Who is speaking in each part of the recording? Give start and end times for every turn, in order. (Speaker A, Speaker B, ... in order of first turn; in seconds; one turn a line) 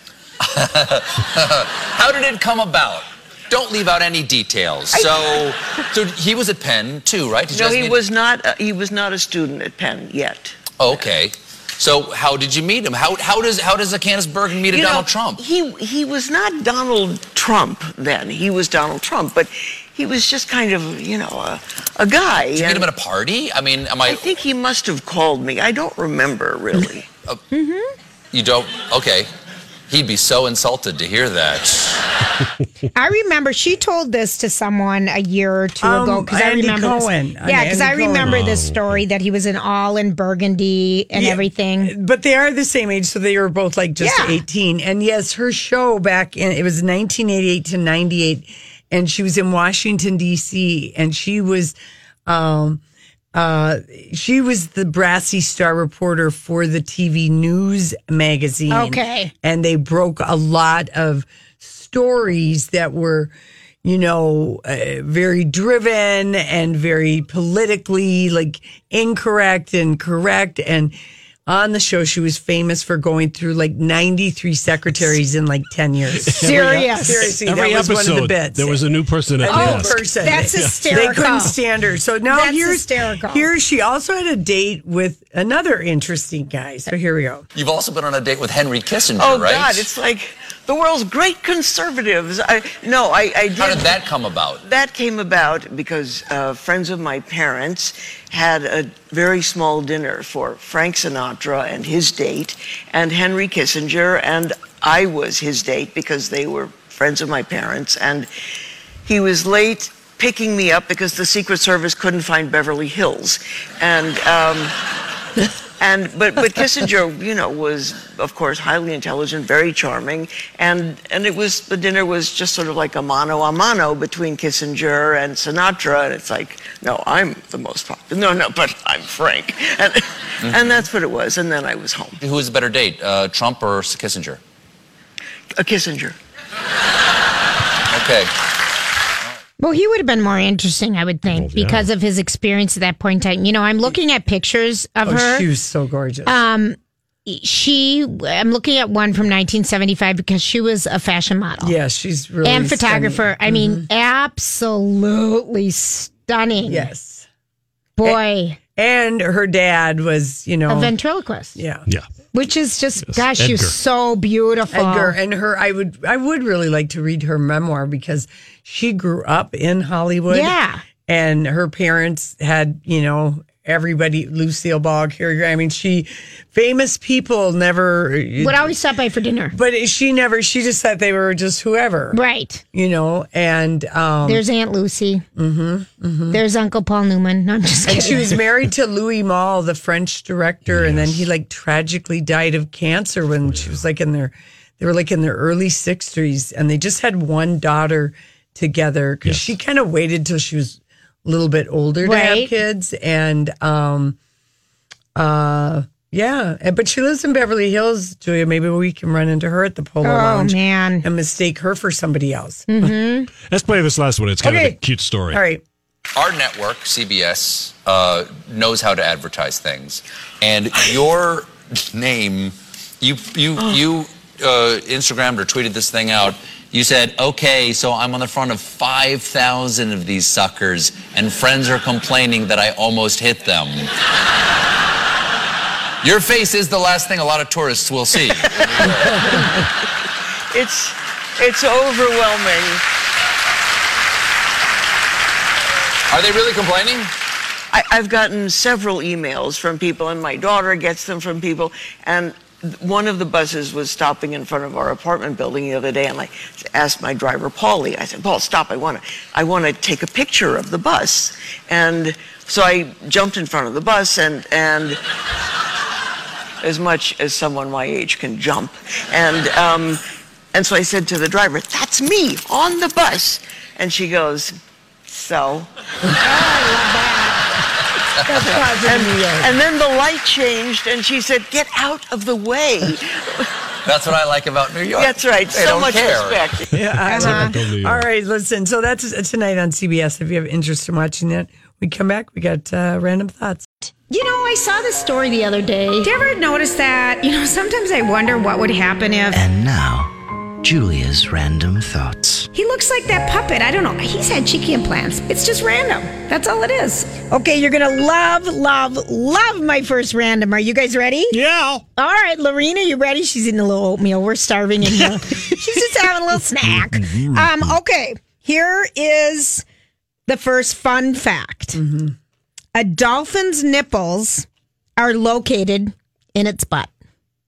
Speaker A: 0.4-8.0
Speaker B: 4.9-5.5
Speaker B: 7.5-10.6
Speaker A: 10.8-15.4
Speaker B: 14.6-22.9
Speaker A: 22.5-24.2
Speaker B: 24.1-27.1
Speaker C: 27.5-27.9
Speaker A: 28.3-29.3
Speaker A: 29.9-32.0
Speaker C: 33.0-41.9
Speaker D: 35.8-38.5
Speaker E: 38.2-39.0
Speaker D: 41.1-52.8
Speaker C: 44.0-44.4
Speaker D: 53.3-63.3
Speaker C: 58.7-59.3
Speaker D: 63.8-70.9
Speaker D: 71.5-78.8
Speaker E: 76.2-81.1
Speaker C: 76.4-77.3
Speaker D: 79.4-87.5
Speaker C: 79.5-81.5
Speaker C: 82.3-83.5
Speaker A: 87.5-89.9
Speaker B: 89.2-94.0
Speaker A: 93.6-94.6
Speaker B: 94.6-108.3
Speaker B: 109.0-114.8
Speaker B: 115.8-132.2
Speaker A: 132.2-134.4
Speaker B: 135.6-136.2
Speaker A: 137.9-138.3
Speaker C: 139.6-145.5
Speaker E: 141.3-141.9
Speaker D: 145.1-146.4
Speaker C: 146.3-151.8
Speaker D: 151.6-153.8
Speaker C: 152.4-156.9
Speaker D: 156.7-157.3
Speaker C: 158.0-158.6
Speaker D: 158.8-160.9
Speaker C: 160.7-161.6
Speaker D: 161.6-161.8
Speaker C: 162.3-165.2
Speaker E: 163.0-163.8
Speaker D: 164.7-170.6
Speaker C: 170.3-170.8
Speaker D: 171.1-178.7
Speaker C: 178.4-179.6
Speaker D: 179.5-182.2
Speaker C: 182.1-182.6
Speaker D: 182.7-184.4
Speaker C: 184.2-185.2
Speaker D: 185.4-186.4
Speaker C: 186.3-188.3
Speaker D: 187.8-204.2
Speaker E: 190.7-191.3
Speaker E: 193.5-193.8
Speaker E: 199.2-199.6
Speaker C: 202.0-202.5
Speaker D: 205.2-212.9
Speaker C: 210.0-211.1
Speaker C: 212.7-213.3
Speaker E: 213.4-215.4
Speaker D: 214.4-214.8
Speaker D: 215.3-215.6
Speaker A: 216.2-233.9
Speaker A: 236.0-239.3
Speaker B: 238.5-239.0
Speaker B: 240.5-242.8
Speaker A: 246.1-247.1
Speaker B: 247.7-265.0
Speaker B: 266.6-270.0
Speaker B: 270.5-275.7
Speaker C: 276.2-277.5
Speaker D: 278.2-279.5
Speaker B: 278.8-283.5
Speaker A: 283.9-286.4
Speaker B: 285.0-286.7
Speaker E: 286.7-288.1
Speaker D: 286.7-293.9
Speaker C: 287.1-287.6
Speaker C: 294.1-299.4
Speaker F: 299.3-300.1
Speaker F: 300.6-302.5
Speaker C: 302.5-311.4
Speaker E: 311.3-311.8
Speaker C: 312.0-319.6
Speaker E: 316.6-317.8
Speaker C: 320.3-321.8
Speaker D: 321.8-322.2
Speaker C: 322.8-326.9